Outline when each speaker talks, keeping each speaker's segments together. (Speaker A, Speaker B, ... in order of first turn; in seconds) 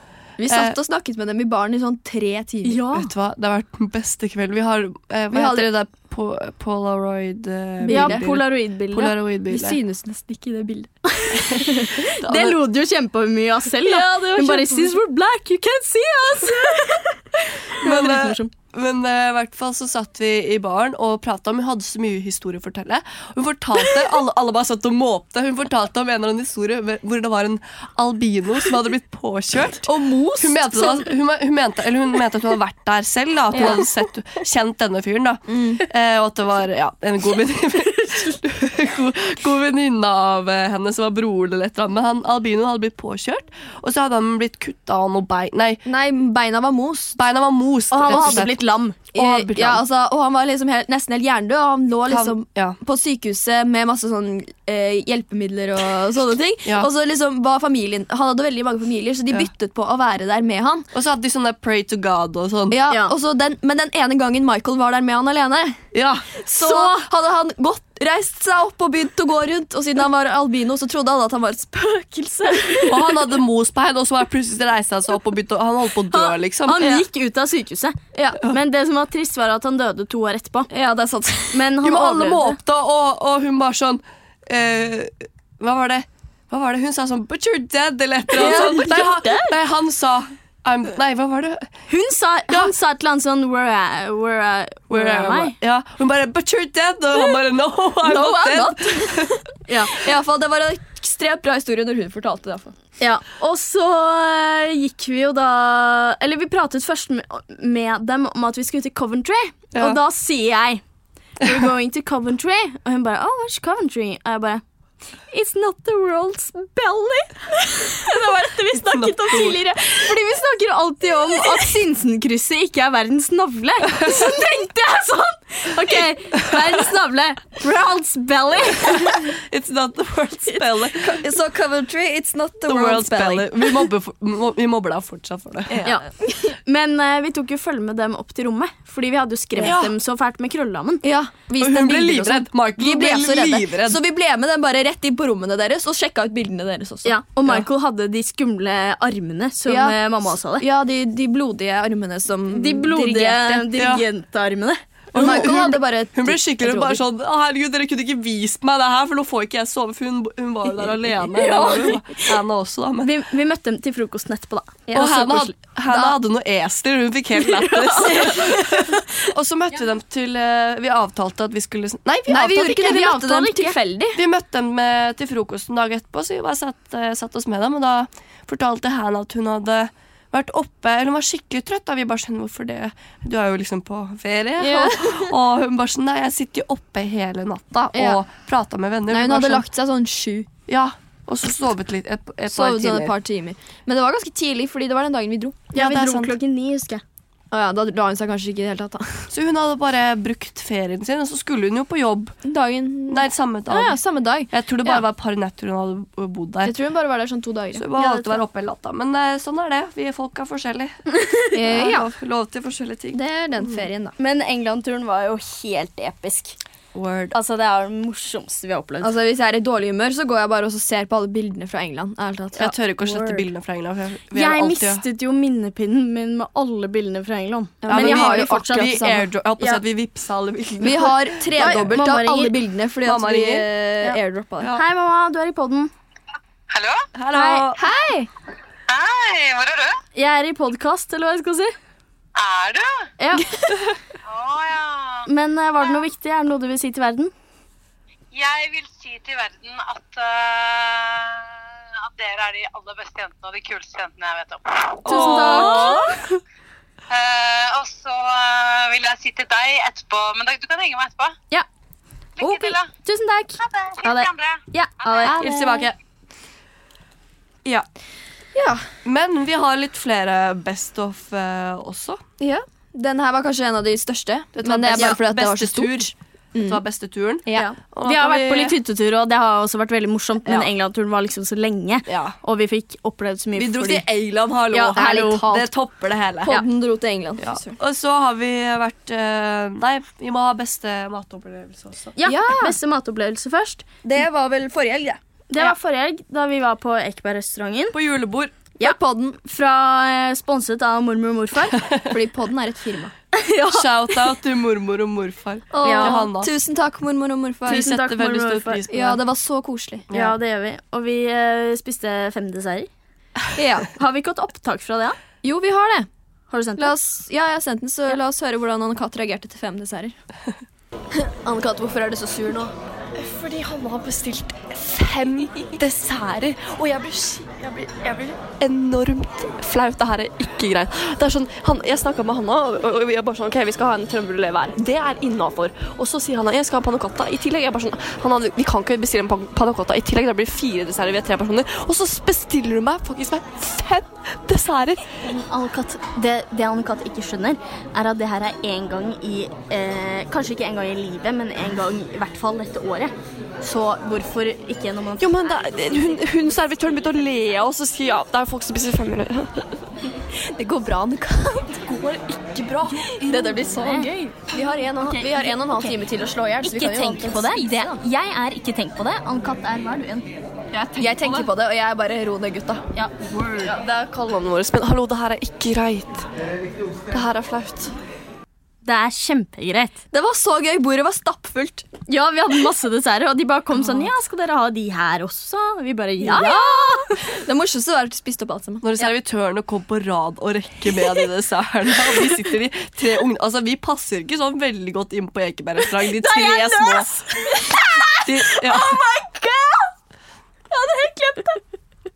Speaker A: 0.4-2.8, 5.3-5.7, 7.8-8.3, 9.5-11.0, 13.8-15.0, 29.9-31.1, 33.5-33.8, 35.5-35.8, 45.9-47.2, 48.0-48.5, 49.1-60.9, 62.7-65.8, 66.5-73.0, 78.1-78.4, 80.7-81.7, 88.4-89.0, 98.4-98.7, 99.9-102.7, 131.0-133.9, 135.7-136.6, 141.0-147.2, 149.7-153.7, 155.1-157.0, 161.5-162.0, 164.9-166.2, 172.3-174.2, 184.6-185.3, 187.9-188.2, 189.1-190.5, 192.5-195.7, 197.5-199.3, 202.4-205.0, 206.6-208.0, 211.5-212.1, 213.1-214.2, 219.0-222.7, 227.8-229.3, 230.8-234.8, 237.8-238.3, 255.1-256.1, 268.6-268.9, 272.4-276.8, 277.5-277.7, 284.9-285.7, 286.4-287.8, 292.2-292.8, 294.0-295.7, 298.8-299.4, 302.1-303.1, 305.7-307.9, 308.9-310.1, 313.6-313.9, 315.4-316.1, 316.8-320.1, 321.2-322.7, 360.4-361.9, 363.0-368.0, 371.0-372.8, 380.1-381.9, 386.2-388.9
Speaker B: 0.5-0.8, 2.9-9.8, 11.3-11.7, 12.2-12.6, 17.8-45.8, 47.2-49.8, 52.1-52.8, 60.9-62.8, 65.9-66.9, 72.9-76.9, 81.8-91.7, 94.9-99.4, 109.7-110.0, 118.7-119.8, 123.9-124.3, 128.8-131.2, 132.6-135.8, 139.6-139.9, 141.6-144.0, 153.8-154.0, 155.1-163.1, 164.9-173.2, 174.1-189.7, 190.7-193.2, 195.7-196.3, 199.3-202.4, 203.1-206.7, 207.7-211.0, 211.6-213.8, 216.9-217.3, 222.6-225.0, 227.9-232.0, 233.1-233.7, 237.1-237.8, 255.0-256.1, 265.3-265.9, 269.1-272.2, 274.6-278.8, 282.1-282.4, 283.6-286.6, 287.4-292.1, 297.9-298.5, 301.8-302.1, 303.7-306.5, 307.7-309.2, 310.1-310.4, 388.8-397.1, 398.2-399.0
Speaker C: 2.6-3.1, 7.9-9.1, 11.2-18.5, 47.9-49.0, 66.6-67.0, 72.5-72.9, 76.1-80.7, 81.5-82.6, 88.3-89.5, 91.9-95.6, 98.1-99.0, 99.7-99.9, 103.0-110.8, 111.4-114.6, 115.3-129.3, 135.8-141.0, 147.1-150.7, 152.5-155.3, 161.5-161.9, 163.0-164.9, 167.6-168.5, 172.8-173.8, 195.7-197.0, 214.2-216.6, 217.3-219.1, 223.0-223.4, 224.3-229.0, 231.6-232.6, 234.8-235.9, 237.3-237.7, 240.2-241.7, 243.2-243.5, 245.3-247.3, 255.1-256.1, 262.4-265.5, 277.5-284.1, 284.7-285.5, 292.2-293.9, 295.5-298.0, 298.8-301.8, 303.4-304.2, 305.8-306.2, 307.7-308.9, 310.1-312.9, 313.9-315.2, 316.5-316.9, 345.2-355.9, 363.3-366.0, 366.6-370.3, 371.0-371.4, 372.9-373.8, 378.9-380.0, 382.1-387.2, 396.2-399.9, 400.7-401.6
Speaker D: 236.7-237.1, 238.9-240.0, 242.4-243.1, 244.3-245.3, 248.3-255.0, 257.1-261.4, 262.4-262.9, 263.6-265.3
Speaker E: 323.2-345.0, 355.2-359.8, 361.8-363.3, 373.7-376.3, 377.1-377.9